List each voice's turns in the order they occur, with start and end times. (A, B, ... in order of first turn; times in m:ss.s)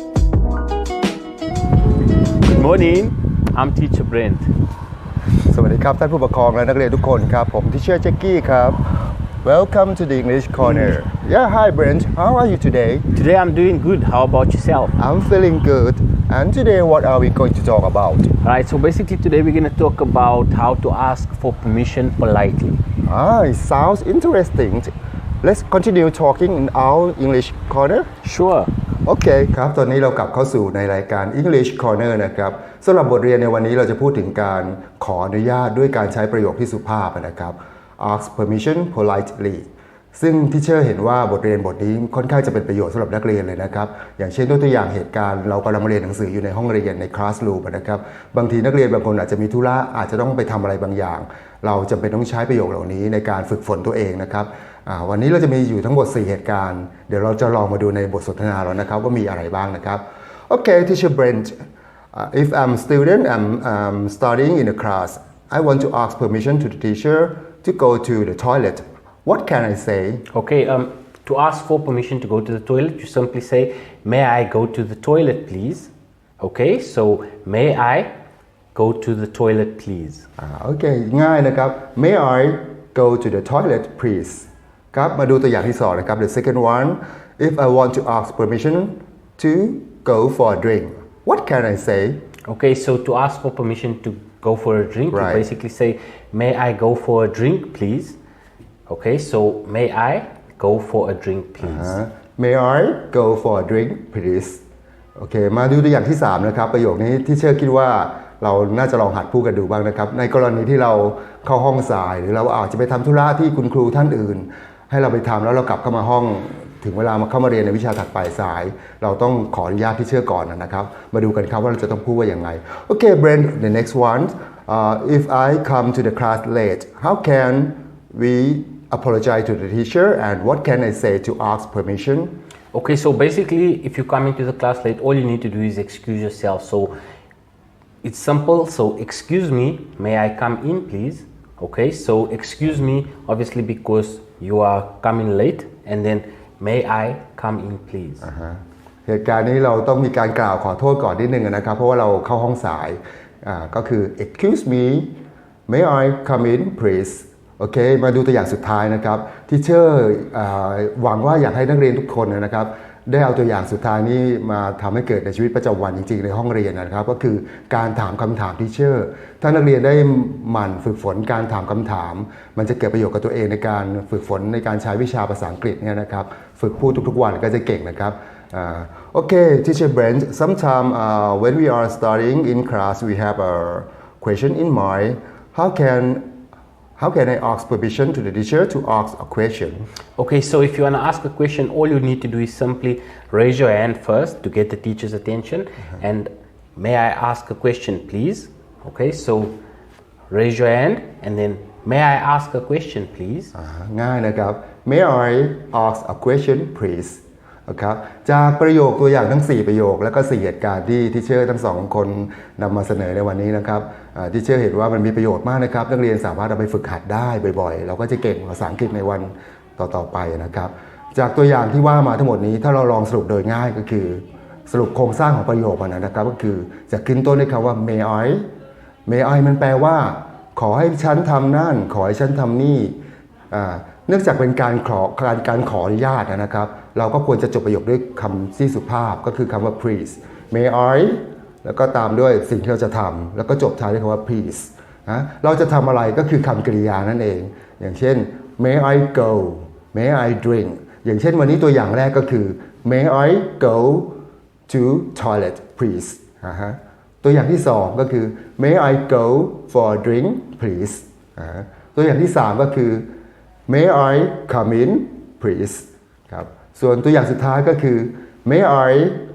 0:02.4-0:04.5 A
0:05.5-0:08.8 B
0:09.4-0:13.1 B
0:13.1-0:15.0 A
0:15.0-0:18.3 B
0:18.4-0:22.8 A
0:23.0-0:28.1 B
0:28.2-0:28.7 A
0:29.1-1:01.6 B
1:02.1-1:10.2 B
1:10.3-1:18.1 A
1:18.8-1:20.3 A
1:20.4-1:32.2 B
1:32.5-1:38.2 A
1:35.1-1:35.5 B
1:38.9-1:42.0 A
1:41.6-1:44.6 B
1:45.2-2:12.3 B
2:12.7-2:17.0 A
2:18.0-2:28.3 A
2:28.2-2:35.1 B
2:35.7-3:06.3 B
3:07.0-3:09.9 B
3:10.2-3:19.6 A
3:20.3-3:23.5 A
3:23.6-3:48.4 B
3:49.1-3:53.0 B
3:53.5-4:14.2 B
4:14.7-4:23.1 B
4:23.7-4:29.2 B